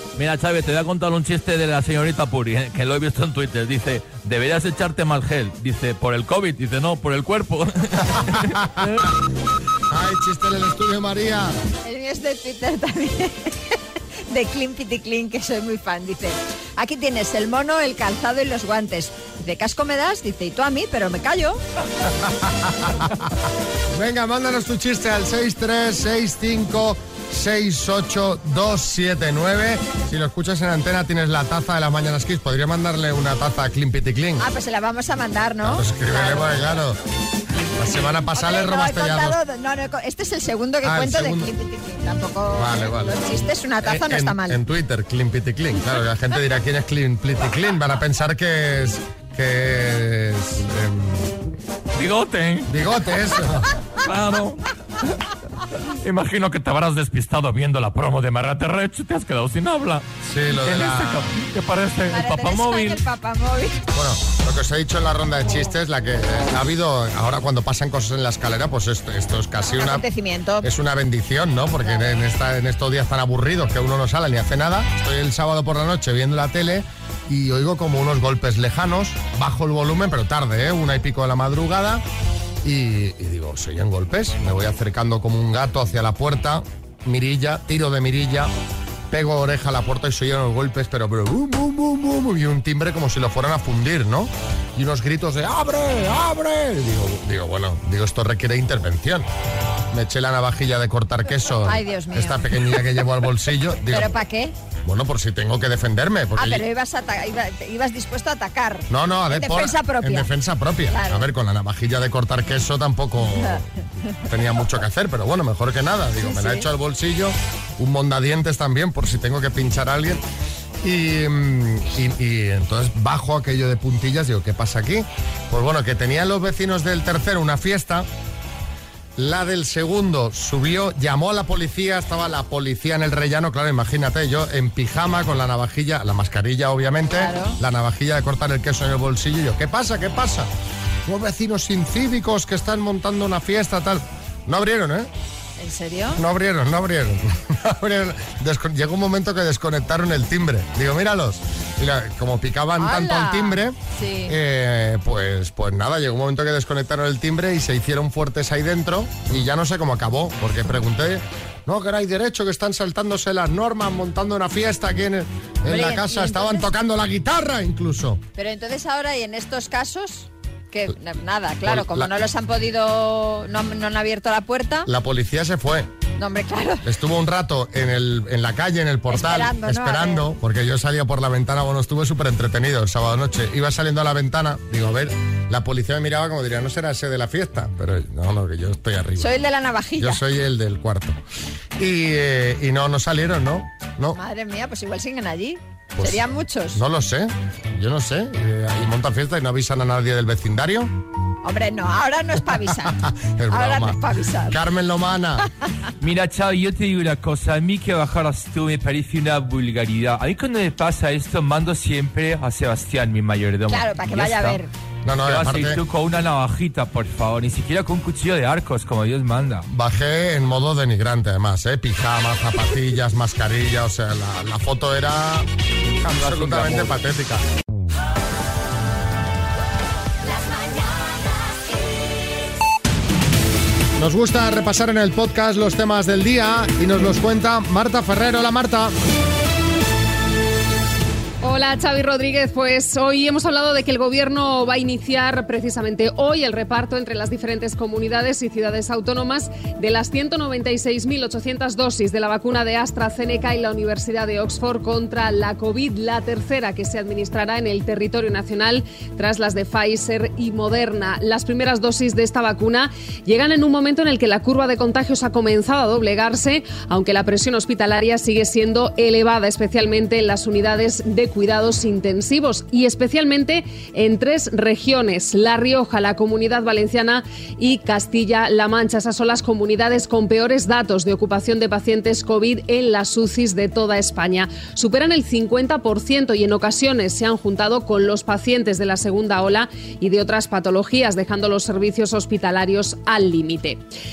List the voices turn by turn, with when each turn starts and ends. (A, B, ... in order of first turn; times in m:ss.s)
0:00.2-0:09.1 A
0:08.6-0:08.9 B
0:09.9-0:11.6 B
0:11.8-0:13.5 C
0:14.3-0:21.6 C
0:22.2-0:23.1 B
0:23.9-0:34.4 B
0:34.4-0:36.6 C
0:35.6-0:37.0 B
0:37.8-0:39.4 B
0:38.3-0:44.6 C
0:40.8-0:41.5 B
0:42.5-0:43.2 B
0:43.8-0:51.3 B
0:52.0-0:52.7 A
0:52.7-0:53.7 B
0:54.0-0:54.6 A
0:56.0-1:03.0 A
1:00.2-1:01.3 B
1:02.1-1:03.8 C
1:03.9-1:10.0 B
1:09.6-1:10.7 C
1:10.6-1:22.0 B
1:11.8-1:12.1 C
1:22.6-1:28.5 B
1:29.1-1:39.3 B
1:39.9-1:44.1 B
1:41.6-1:42.4 C
1:43.9-1:44.5 C
1:44.8-1:46.6 B
1:46.4-1:50.3 C
1:48.9-1:53.7 B
1:50.9-1:51.2 C
1:54.2-2:00.2 B
1:56.2-1:56.7 C
2:00.8-2:08.1 B
2:09.2-2:20.5 B
2:17.1-2:17.6 C
2:21.0-2:25.1 B
2:25.6-2:26.2 C
2:26.2-2:33.8 B
2:32.8-2:34.3 C
2:34.3-2:48.2 B
2:45.7-2:46.7 C
2:48.4-2:54.9 C
2:51.6-2:52.1 B
2:54.8-2:55.9 B
2:56.2-2:56.8 C
2:56.8-3:09.3 B
2:59.1-3:00.3 C
3:09.2-3:10.2 C
3:10.0-3:11.2 B
3:11.8-3:14.2 B
3:14.1-3:16.8 C
3:16.0-3:16.2 B
3:16.7-3:20.9 B
3:21.4-3:23.0 C
3:22.8-3:25.5 B
3:23.5-3:24.6 C
3:26.0-3:34.6 A
3:33.7-3:34.7 C
3:35.0-3:35.8 B
3:35.2-3:39.6 A
3:39.7-3:45.5 B
3:46.0-3:47.4 B
3:46.1-3:46.9 A
3:54.0-3:58.9 B
4:01.4-4:53.8 D